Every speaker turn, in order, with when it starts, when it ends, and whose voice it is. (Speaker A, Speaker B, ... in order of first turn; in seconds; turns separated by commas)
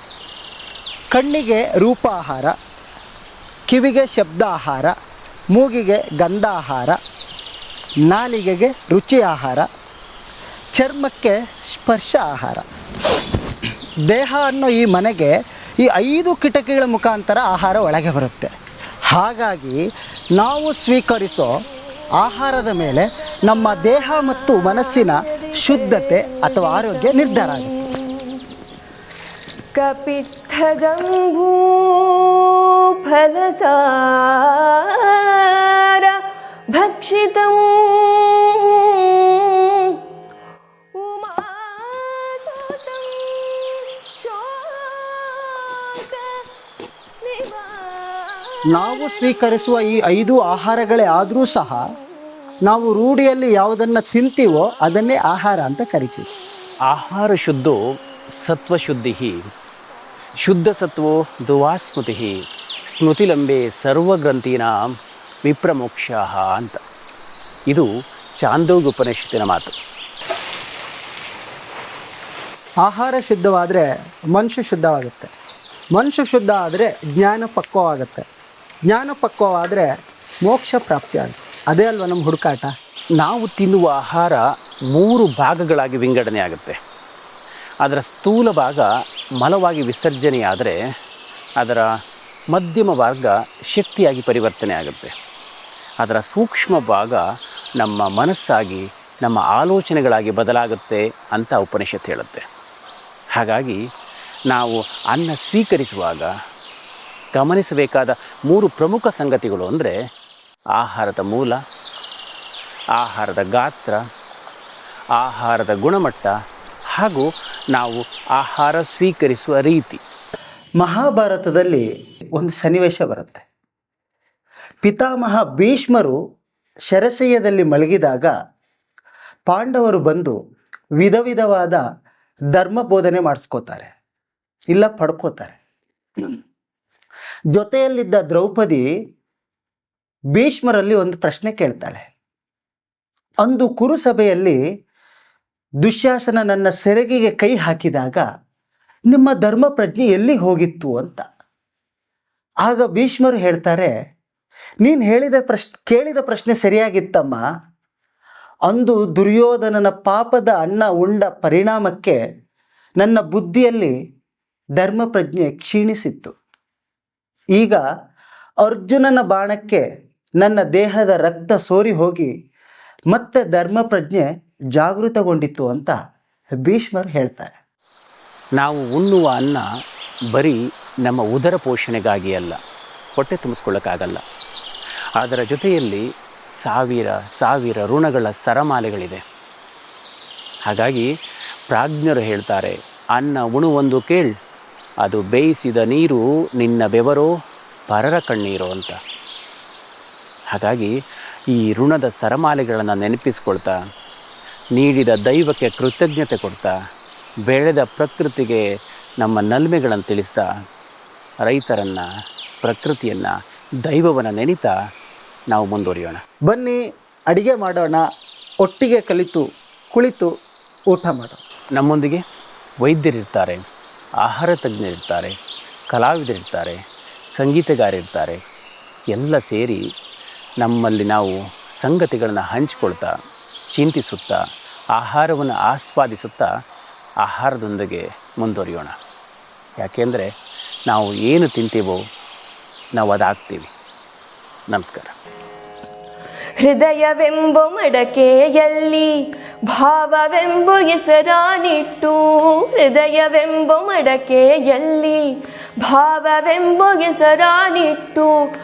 Speaker A: 1.1-2.5, Speaker A: 3.7-4.9, Speaker A: 5.5-7.0, Speaker A: 8.1-9.7, Speaker A: 10.8-12.6, Speaker A: 14.1-18.5, Speaker A: 19.1-19.8, Speaker A: 20.4-21.5, Speaker A: 22.2-27.7, Speaker B: 22.5-22.9, Speaker B: 23.5-28.4, Speaker B: 29.7-40.0, Speaker B: 40.9-46.5, Speaker B: 47.2-50.0, Speaker A: 48.7-51.8, Speaker A: 52.6-56.3, Speaker C: 56.9-57.8, Speaker C: 58.4-59.3, Speaker C: 60.4-62.3, Speaker C: 62.9-64.9, Speaker C: 65.5-66.8, Speaker C: 68.4-69.7, Speaker A: 72.8-75.3, Speaker A: 75.9-78.2, Speaker A: 78.9-79.9, Speaker A: 80.5-82.7, Speaker C: 83.2-84.4, Speaker C: 84.9-86.8, Speaker C: 87.8-88.8, Speaker C: 89.4-90.8, Speaker C: 91.6-91.8, Speaker C: 92.5-95.1, Speaker C: 96.0-97.2, Speaker C: 97.8-102.4, Speaker C: 103.3-103.8, Speaker C: 104.5-106.3, Speaker C: 107.3-109.9, Speaker C: 110.8-111.5, Speaker C: 113.0-114.0, Speaker C: 115.2-116.3, Speaker C: 116.9-120.0, Speaker A: 120.8-121.8, Speaker A: 122.3-123.4, Speaker A: 124.8-126.1, Speaker A: 126.9-128.3, Speaker A: 129.5-130.3, Speaker A: 131.0-131.8, Speaker A: 132.5-133.9, Speaker A: 134.7-135.6, Speaker A: 137.5-138.8, Speaker A: 140.3-142.1, Speaker A: 143.4-144.6, Speaker A: 145.8-148.2, Speaker A: 149.1-151.2, Speaker A: 152.6-153.9, Speaker A: 154.8-157.4, Speaker A: 158.7-162.2, Speaker A: 163.0-163.9, Speaker A: 164.8-166.3, Speaker A: 167.6-167.8, Speaker A: 168.6-169.8, Speaker A: 170.4-172.3, Speaker A: 173.1-176.0, Speaker A: 176.6-177.6, Speaker C: 178.6-179.6, Speaker C: 180.3-182.6, Speaker C: 183.2-184.2, Speaker C: 185.2-186.0, Speaker C: 186.6-189.2, Speaker C: 190.7-191.1, Speaker C: 191.7-194.3, Speaker C: 195.0-197.3, Speaker C: 197.9-199.0, Speaker C: 200.5-200.9, Speaker C: 201.5-203.7, Speaker C: 204.8-206.7, Speaker C: 207.5-208.6, Speaker C: 209.2-210.4, Speaker C: 211.4-212.0, Speaker C: 212.6-214.7, Speaker C: 215.5-216.2, Speaker A: 216.5-216.8, Speaker A: 217.3-218.0, Speaker A: 218.6-220.3, Speaker A: 220.9-221.4, Speaker C: 221.8-222.2, Speaker C: 222.8-223.6, Speaker C: 224.2-225.3, Speaker C: 225.9-226.8, Speaker C: 227.3-228.4, Speaker C: 229.1-229.8, Speaker C: 230.6-233.1, Speaker C: 233.7-234.4, Speaker C: 234.9-236.5, Speaker C: 237.2-238.9, Speaker C: 239.8-240.3, Speaker C: 240.9-242.0, Speaker C: 242.9-243.7, Speaker C: 244.7-245.1, Speaker B: 246.6-258.3